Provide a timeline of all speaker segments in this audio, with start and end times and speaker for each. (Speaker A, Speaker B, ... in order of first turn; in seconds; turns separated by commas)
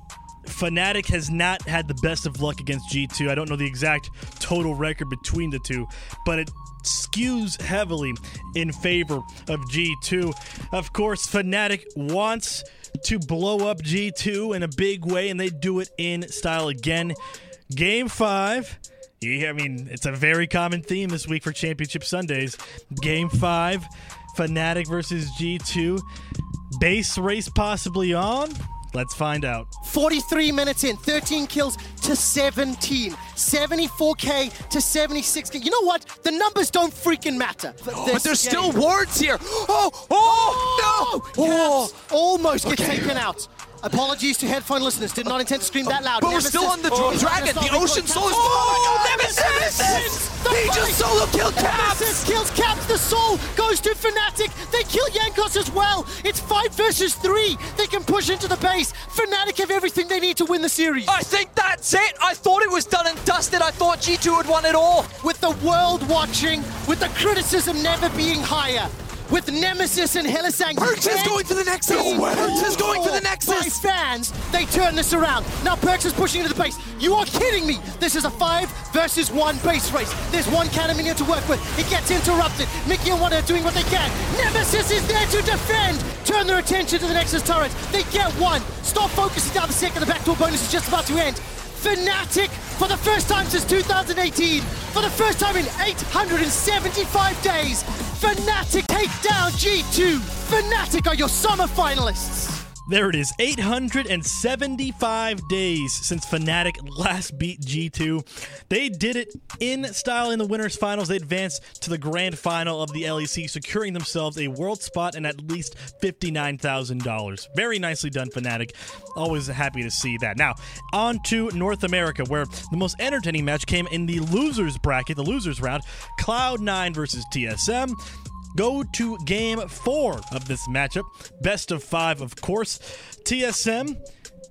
Speaker A: 0.5-17.1, Speaker A: 17.7-26.1, Speaker A: 26.7-29.7, Speaker B: 29.8-38.8, Speaker C: 37.9-41.9, Speaker B: 40.1-61.2, Speaker C: 42.6-43.1, Speaker C: 46.2-52.2, Speaker C: 61.1-65.1, Speaker B: 65.2-102.6, Speaker C: 70.8-73.7, Speaker A: 102.9-128.0, Speaker A: 128.5-134.0